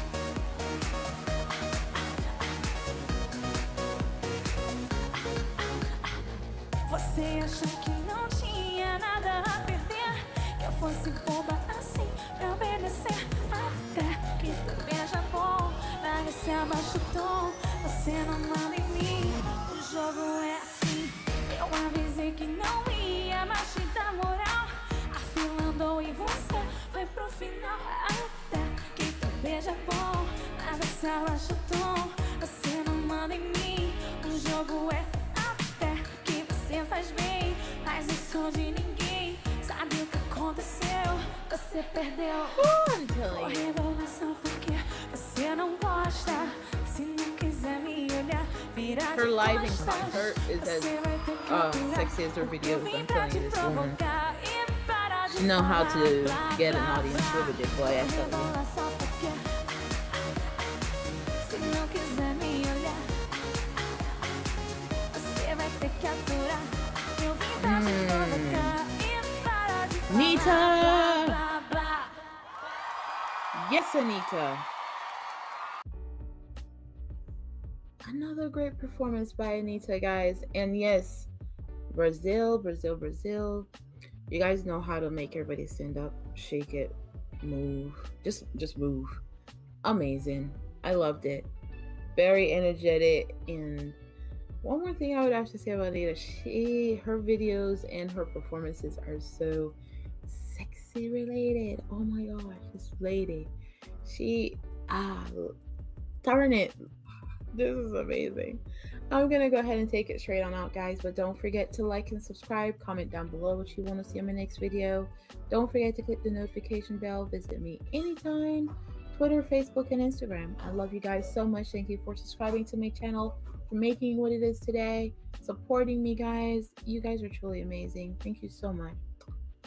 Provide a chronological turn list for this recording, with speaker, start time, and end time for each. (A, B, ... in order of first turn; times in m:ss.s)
0:06.8-0:42.7 A
0:42.6-0:43.8 B
0:43.3-0:59.5 A
0:49.1-0:51.0 B
0:51.5-0:54.0 B
0:55.3-0:58.5 B
1:01.4-1:03.1 A
1:05.1-1:12.2 A
1:07.6-1:08.8 B
1:10.1-1:11.4 B
1:13.5-1:14.6 B
1:18.0-1:21.3 B
1:21.9-1:23.7 B
1:24.3-1:29.2 B
1:29.8-1:31.5 B
1:32.1-1:34.0 B
1:34.6-1:43.5 B
1:44.0-1:45.6 B
1:46.2-1:46.8 B
1:47.5-2:09.0 B